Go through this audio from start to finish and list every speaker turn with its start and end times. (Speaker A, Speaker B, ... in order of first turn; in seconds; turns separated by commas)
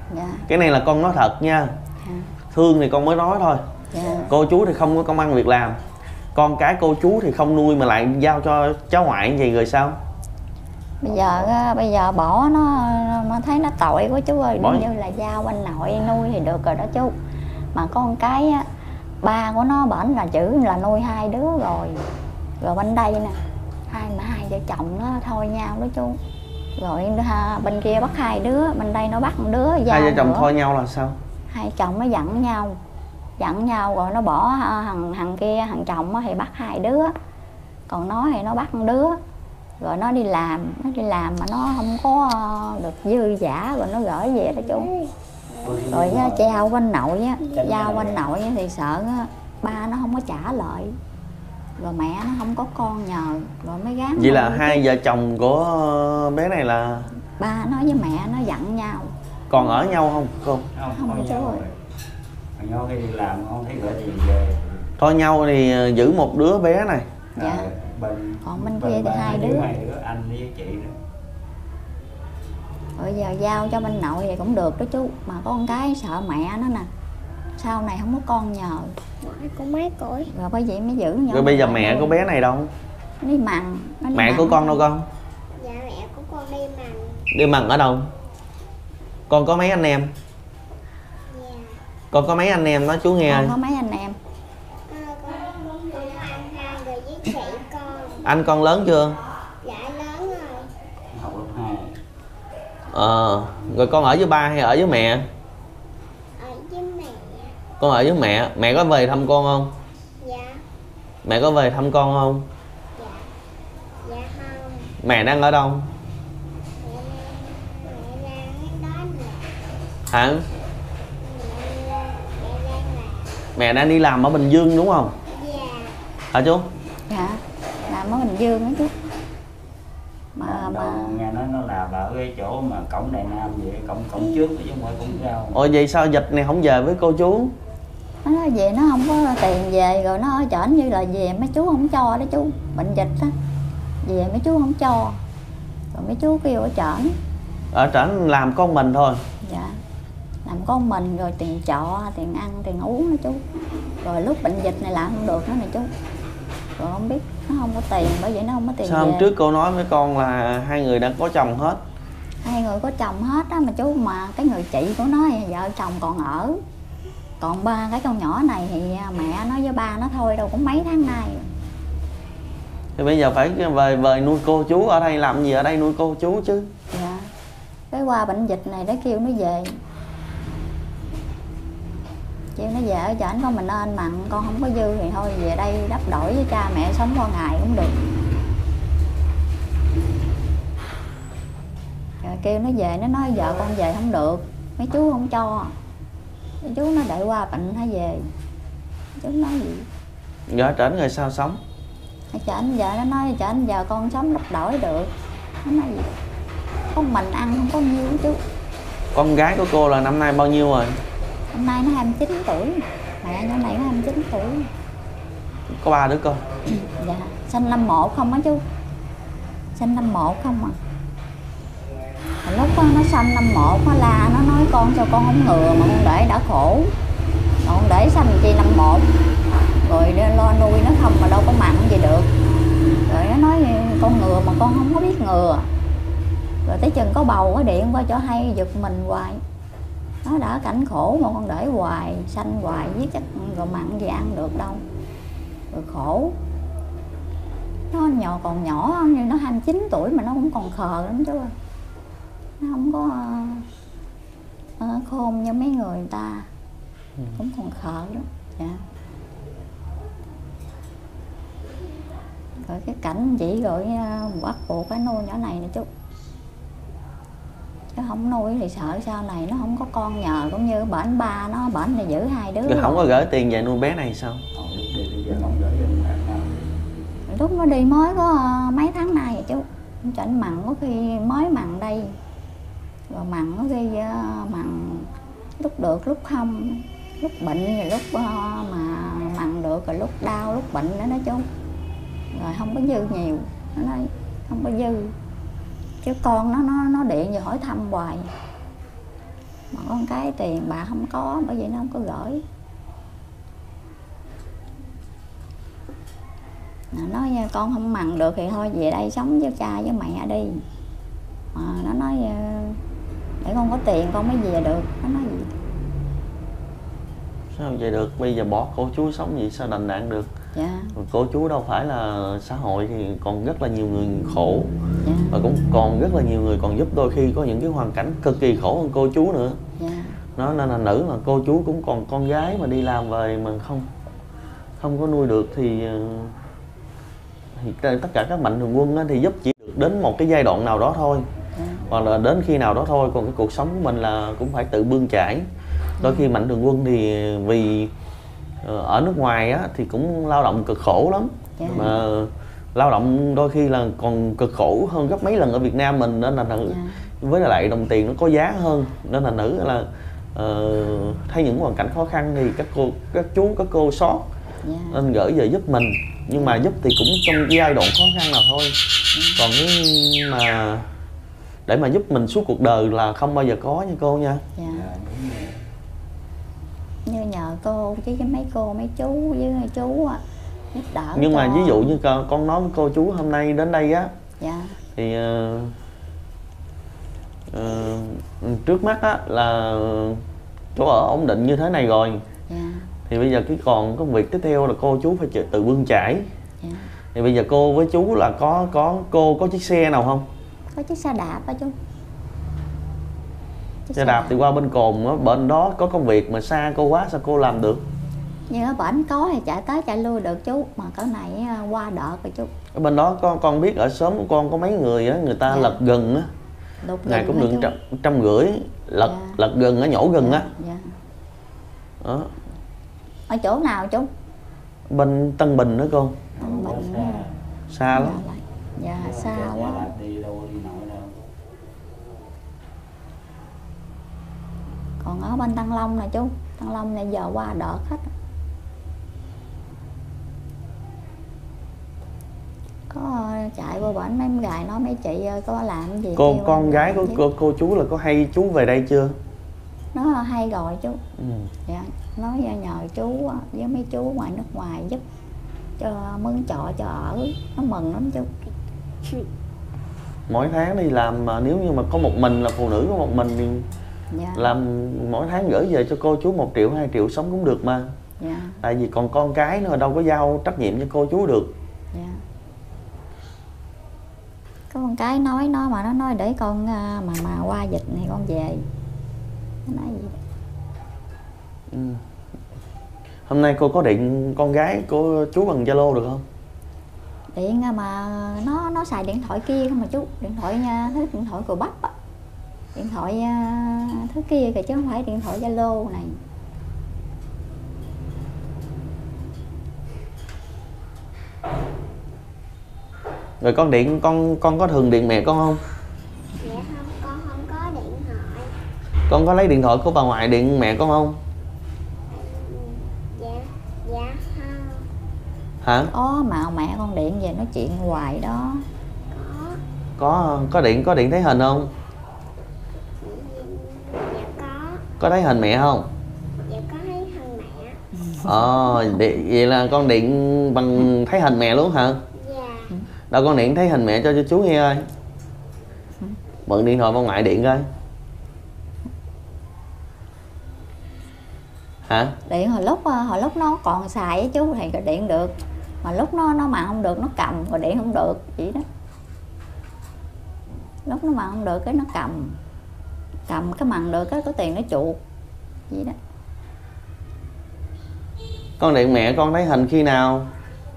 Speaker A: 0.1-0.5, Speaker B: 0.5-1.7, Speaker A: 2.0-2.3, Speaker B: 2.5-3.6, Speaker A: 3.9-4.3, Speaker B: 4.3-5.8, Speaker B: 6.3-9.9, Speaker A: 11.0-17.1, Speaker B: 14.6-14.9, Speaker A: 17.7-18.7, Speaker A: 19.2-22.0, Speaker A: 22.6-26.2, Speaker A: 26.8-30.5, Speaker B: 29.9-31.2, Speaker A: 31.5-32.8, Speaker A: 33.4-37.1, Speaker A: 37.9-39.2, Speaker A: 39.8-44.9, Speaker C: 44.6-45.9, Speaker D: 45.6-46.6, Speaker A: 45.9-50.9, Speaker D: 47.5-48.2, Speaker A: 51.8-54.8, Speaker B: 54.2-57.1, Speaker A: 57.4-59.6, Speaker B: 59.5-60.7, Speaker D: 60.7-61.8, Speaker A: 60.9-61.6, Speaker D: 62.6-64.9, Speaker B: 65.0-67.1, Speaker D: 67.3-71.0, Speaker A: 67.4-67.7, Speaker A: 68.4-69.7, Speaker A: 73.0-76.9, Speaker A: 77.6-78.9, Speaker C: 79.2-80.3, Speaker A: 80.3-82.2, Speaker B: 81.3-82.7, Speaker A: 83.2-84.8, Speaker B: 84.1-85.1, Speaker C: 85.6-87.2, Speaker B: 87.3-88.1, Speaker B: 89.3-90.1, Speaker C: 91.3-91.8, Speaker B: 92.1-93.5, Speaker A: 93.2-94.2, Speaker C: 94.9-98.2, Speaker B: 98.2-99.2, Speaker C: 99.6-100.7, Speaker D: 101.1-102.0, Speaker B: 102.9-105.2, Speaker C: 106.4-107.5, Speaker B: 107.8-109.7, Speaker C: 110.2-110.6, Speaker B: 111.2-112.5, Speaker C: 113.0-113.2, Speaker C: 114.0-114.9, Speaker B: 115.0-115.9, Speaker C: 116.8-119.5, Speaker B: 120.1-120.4, Speaker C: 121.2-123.3, Speaker B: 123.5-125.1, Speaker C: 125.3-126.0, Speaker B: 126.3-126.7, Speaker A: 127.1-128.9, Speaker D: 127.8-128.3, Speaker A: 130.3-131.2, Speaker D: 130.4-135.6, Speaker B: 135.5-137.5, Speaker A: 138.2-143.3, Speaker A: 144.0-145.2, Speaker A: 145.9-147.2, Speaker B: 147.7-149.2, Speaker A: 149.4-149.8, Speaker A: 150.4-153.4, Speaker A: 154.0-155.9, Speaker A: 156.8-159.3, Speaker B: 158.8-161.8, Speaker A: 162.4-166.6, Speaker A: 167.4-171.5, Speaker B: 173.0-176.7, Speaker A: 176.9-177.3, Speaker A: 177.9-179.8, Speaker A: 182.6-187.9, Speaker A: 192.2-195.7, Speaker A: 196.6-198.3, Speaker A: 199.2-199.9, Speaker B: 200.5-201.6, Speaker A: 202.3-205.1, Speaker A: 205.6-206.1, Speaker A: 206.9-208.4, Speaker B: 209.1-211.0, Speaker A: 211.5-214.7, Speaker B: 215.8-216.4, Speaker A: 216.7-218.6, Speaker A: 219.8-220.8, Speaker A: 222.4-226.9, Speaker A: 227.6-229.1, Speaker A: 229.8-232.3, Speaker A: 233.1-235.7, Speaker A: 236.6-239.4, Speaker A: 240.2-244.8, Speaker A: 245.7-246.3, Speaker A: 247.9-251.5, Speaker A: 252.6-253.7, Speaker A: 254.8-256.5, Speaker A: 257.4-258.8, Speaker A: 262.6-265.9, Speaker A: 267.9-273.1, Speaker B: 272.6-274.4, Speaker D: 274.5-276.5, Speaker A: 277.3-282.1, Speaker A: 283.1-291.4, Speaker A: 292.3-295.1, Speaker A: 296.0-298.3, Speaker A: 299.7-302.4, Speaker A: 306.9-310.6, Speaker A: 311.5-312.8, Speaker A: 313.4-315.5, Speaker B: 317.5-320.3, Speaker A: 320.5-320.9, Speaker B: 320.9-324.7, Speaker A: 325.0-325.4, Speaker B: 325.3-329.6, Speaker A: 329.8-330.2, Speaker B: 330.4-333.9, Speaker B: 334.8-336.3, Speaker B: 337.6-341.2, Speaker A: 341.6-341.9, Speaker B: 341.9-345.5, Speaker A: 346.0-346.3, Speaker B: 346.0-347.9, Speaker B: 348.6-364.2, Speaker A: 351.6-352.0, Speaker A: 356.6-357.0, Speaker A: 364.6-365.0, Speaker B: 364.9-368.8, Speaker A: 369.1-369.4, Speaker B: 369.4-370.9, Speaker B: 371.7-374.4, Speaker A: 374.6-374.8, Speaker D: 374.6-375.6, Speaker A: 377.1-380.2, Speaker A: 380.7-382.0, Speaker B: 381.1-384.1, Speaker A: 384.4-384.8, Speaker B: 384.9-385.7, Speaker B: 387.5-390.2, Speaker B: 390.7-392.2, Speaker A: 392.5-392.9, Speaker B: 393.1-396.3, Speaker A: 396.6-396.9, Speaker B: 397.1-400.2, Speaker A: 400.7-401.7, Speaker A: 403.9-404.3, Speaker B: 403.9-407.8, Speaker A: 408.5-412.5, Speaker B: 412.7-416.3, Speaker A: 415.5-415.8, Speaker A: 416.8-417.7, Speaker B: 417.1-420.5, Speaker A: 419.0-419.4, Speaker A: 420.2-420.9, Speaker B: 422.0-422.3, Speaker A: 423.3-424.1, Speaker B: 424.9-426.2, Speaker D: 426.3-427.4, Speaker A: 426.4-427.2, Speaker B: 427.7-428.2, Speaker A: 427.9-429.9, Speaker D: 428.9-431.2, Speaker A: 435.0-438.1, Speaker A: 442.9-447.2, Speaker B: 446.1-449.2, Speaker A: 449.9-451.0, Speaker B: 451.2-451.5, Speaker A: 451.7-455.0, Speaker A: 455.8-458.3, Speaker B: 460.3-463.6, Speaker A: 464.1-464.5, Speaker B: 464.3-467.9, Speaker A: 468.2-468.6, Speaker B: 468.6-471.5, Speaker A: 471.9-472.2, Speaker A: 474.7-478.6, Speaker A: 479.6-480.2, Speaker B: 481.7-482.0, Speaker B: 483.3-486.2, Speaker A: 487.3-491.9, Speaker A: 492.7-496.2, Speaker B: 503.4-505.6, Speaker C: 506.4-508.5, Speaker B: 509.1-511.2, Speaker C: 512.1-514.9, Speaker B: 515.6-515.9, Speaker A: 515.9-518.6, Speaker C: 519.1-519.6, Speaker B: 520.0-521.7, Speaker C: 523.0-524.8, Speaker B: 525.0-525.9, Speaker C: 526.4-527.8, Speaker A: 528.0-529.0, Speaker B: 528.2-532.0, Speaker C: 532.1-532.7, Speaker B: 533.1-534.8, Speaker B: 536.5-537.7, Speaker B: 541.9-542.1, Speaker A: 542.3-548.6, Speaker A: 550.9-552.4, Speaker A: 553.3-555.0, Speaker A: 555.7-555.9, Speaker B: 558.6-560.3